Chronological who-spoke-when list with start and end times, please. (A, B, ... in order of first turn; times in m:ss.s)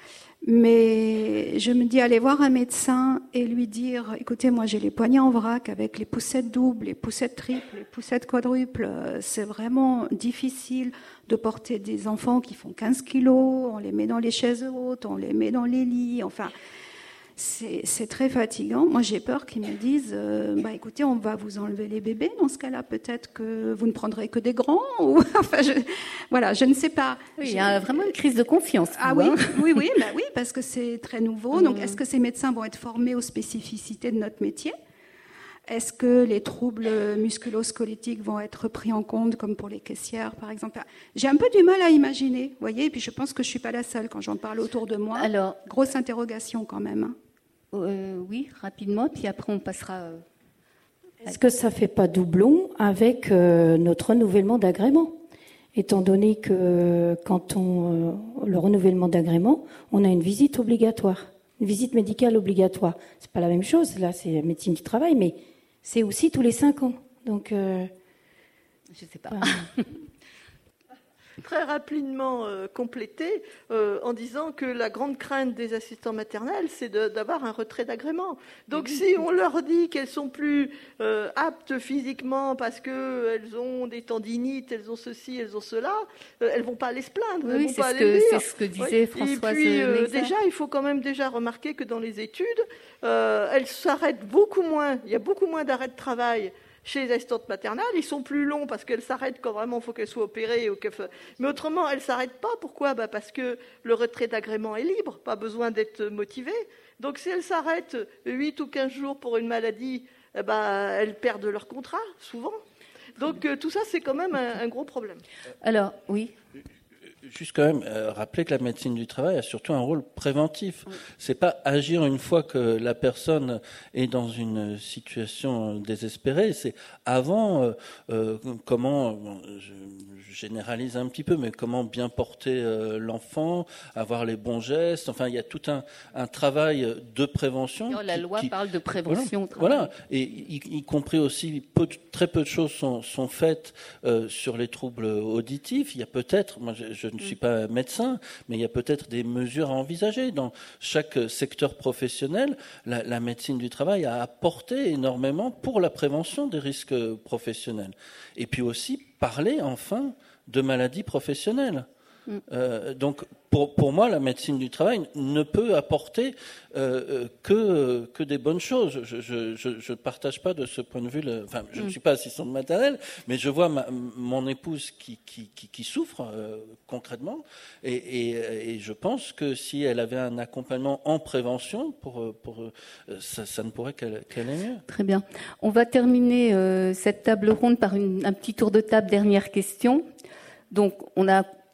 0:00.4-0:16.5 A
0:17.4-0:28.1 A
0:27.4-0:29.9 B
0:29.0-0:34.8 A
0:31.5-0:32.0 B
0:35.7-0:47.2 A
0:45.2-0:45.6 B
0:47.7-0:50.2 B
0:51.2-0:55.2 C
0:55.8-1:07.9 C
1:08.9-1:09.8 B
1:09.3-1:09.5 C
1:11.4-1:52.6 D
1:27.4-1:30.3 B
1:53.2-1:55.2 D
1:55.6-1:56.3 B
1:57.2-2:18.5 E
2:17.9-2:19.9 B
2:19.1-2:41.9 E
2:42.5-3:04.8 E
3:04.9-3:10.0 B
3:10.7-3:11.5 B